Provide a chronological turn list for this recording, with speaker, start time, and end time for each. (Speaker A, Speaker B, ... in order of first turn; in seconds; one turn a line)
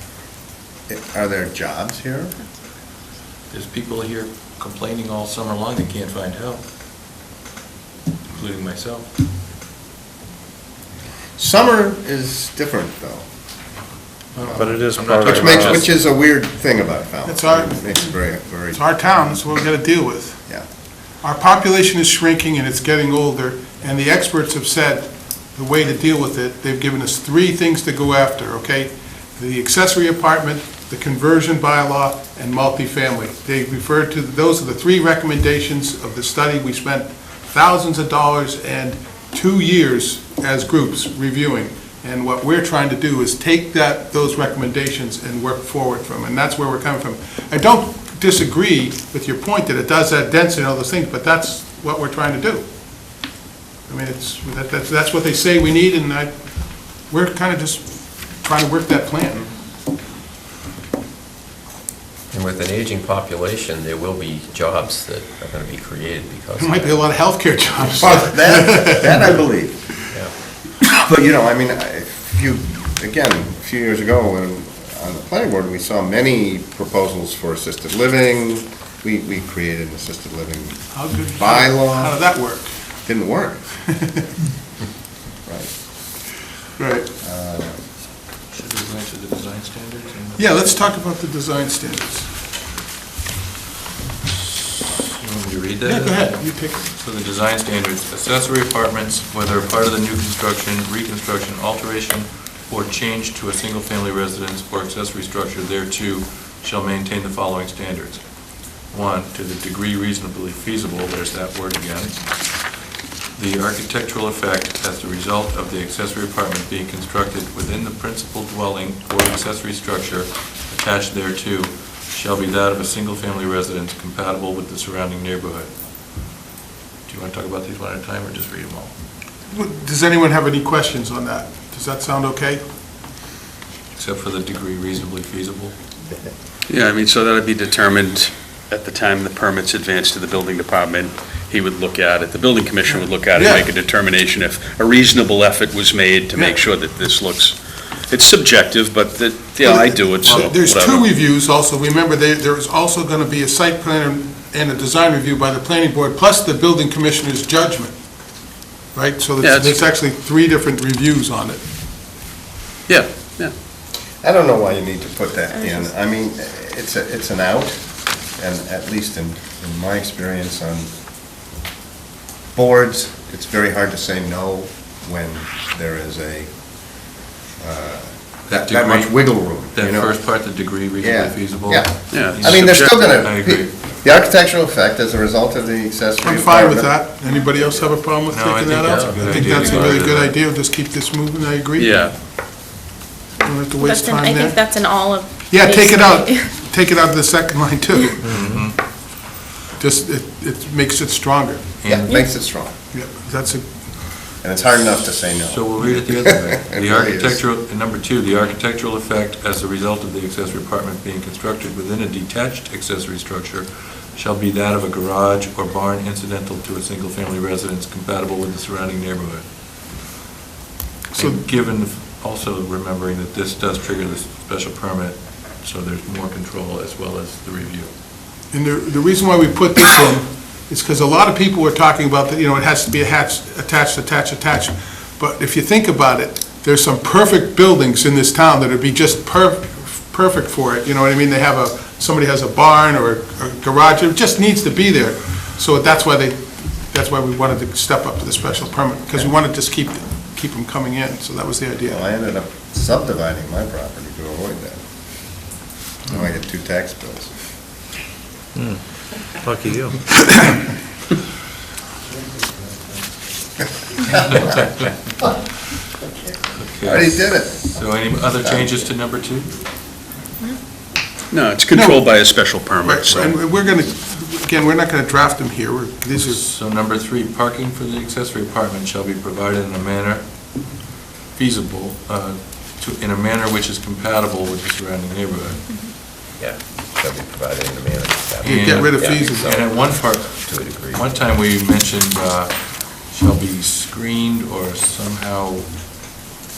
Speaker A: 0.9-2.4
Speaker B: 3.5-6.6
Speaker B: 8.3-9.1
Speaker A: 11.3-13.2
Speaker B: 14.3-15.9
Speaker A: 14.5-18.8
Speaker C: 14.6-15.8
Speaker D: 17.2-18.2
Speaker D: 18.7-20.4
Speaker D: 21.2-52.6
Speaker D: 53.9-56.4
Speaker D: 57.0-59.5
Speaker C: 62.3-67.1
Speaker D: 66.6-69.3
Speaker C: 67.8-68.3
Speaker A: 67.9-69.8
Speaker A: 70.8-82.2
Speaker D: 80.9-82.7
Speaker A: 83.0-83.7
Speaker D: 83.9-84.2
Speaker A: 85.4-85.7
Speaker D: 86.8-87.1
Speaker A: 87.2-87.8
Speaker B: 88.5-90.5
Speaker D: 90.4-92.3
Speaker B: 95.0-108.3
Speaker D: 95.8-96.9
Speaker B: 108.9-112.5
Speaker B: 113.3-125.7
Speaker B: 127.1-128.9
Speaker D: 129.5-132.6
Speaker B: 133.9-135.7
Speaker E: 136.7-151.1
Speaker D: 143.2-143.7
Speaker D: 149.6-157.9
Speaker D: 158.9-161.6
Speaker E: 159.4-159.8
Speaker E: 162.9-163.5
Speaker A: 164.2-170.9
Speaker F: 165.5-165.9
Speaker A: 172.5-188.0
Speaker B: 178.5-183.9
Speaker E: 182.1-182.9
Speaker D: 186.2-192.1
Speaker B: 188.3-190.3
Speaker C: 188.8-189.4
Speaker F: 189.6-189.9
Speaker E: 191.8-192.1
Speaker D: 193.4-194.6
Speaker F: 193.8-196.6
Speaker D: 195.5-198.4
Speaker C: 198.2-198.6
Speaker B: 198.3-198.8
Speaker D: 199.8-201.7
Speaker B: 201.8-202.3
Speaker A: 201.8-202.7
Speaker D: 202.9-203.7
Speaker A: 204.4-207.4
Speaker B: 205.5-219.4
Speaker B: 221.1-227.9
Speaker D: 221.1-221.4
Speaker D: 228.5-252.0
Speaker A: 251.9-254.8
Speaker A: 256.1-257.3
Speaker C: 259.4-260.0
Speaker A: 264.1-264.5
Speaker B: 266.6-269.5
Speaker A: 266.8-268.8
Speaker E: 271.3-273.4
Speaker D: 271.7-272.1
Speaker D: 272.8-276.4
Speaker B: 276.2-280.8
Speaker B: 281.3-285.7
Speaker C: 286.4-291.1
Speaker B: 288.4-295.9
Speaker D: 288.4-289.6